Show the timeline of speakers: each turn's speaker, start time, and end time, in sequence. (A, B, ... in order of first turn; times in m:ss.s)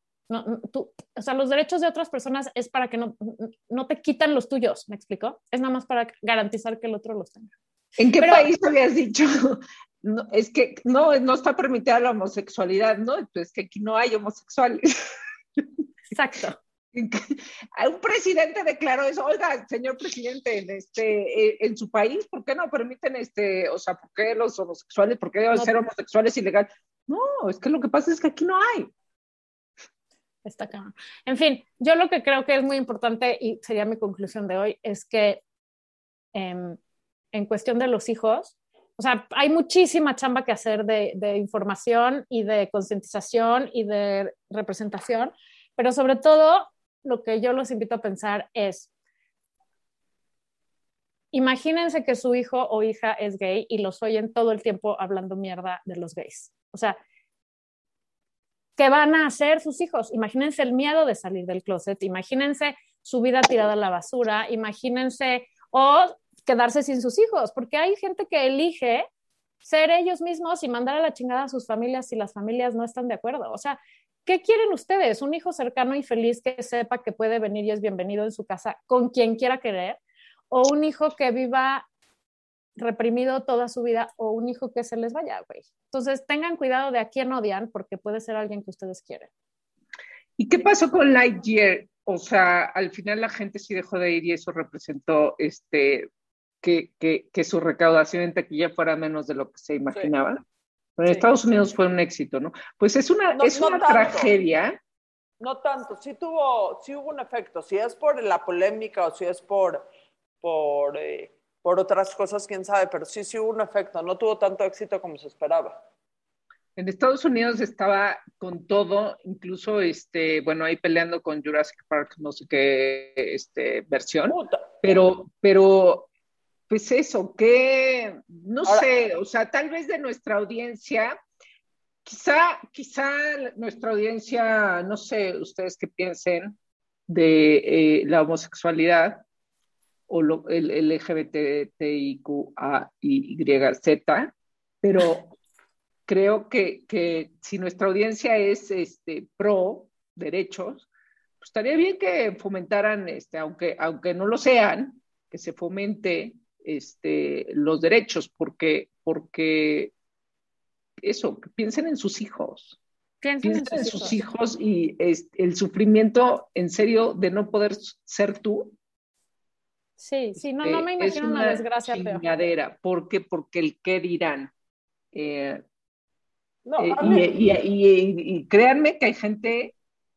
0:00.3-0:07.5 A
0:08.0-0:15.6 B
0:08.2-0:08.5 A
0:16.1-0:16.6 A
0:16.9-0:28.9 B
0:30.4-0:35.4 A
0:36.3-0:36.8 A
0:37.3-0:48.9 A
0:51.3-0:57.0 A
0:58.8-1:09.1 A
1:09.6-1:20.0 A
1:20.5-1:21.9 A
1:22.8-1:29.3 A
1:30.4-1:36.1 B
1:36.6-1:40.4 B
1:41.0-1:44.8 B
1:43.3-1:44.3 C
1:45.4-1:49.9 C
1:50.4-1:55.8 C
1:56.8-2:06.1 B
2:04.3-2:04.6 C
2:06.7-2:11.2 B
2:12.0-2:16.6 B
2:17.1-2:19.2 B
2:20.1-2:25.4 B
2:26.1-2:30.9 B
2:31.4-2:39.9 B
2:41.0-2:42.8 B
2:43.2-2:44.2 A
2:43.4-2:48.8 B
2:50.0-2:52.2 A
2:50.4-2:54.5 B
2:55.1-2:55.6 B
2:56.6-2:57.3 C
2:56.8-2:59.8 B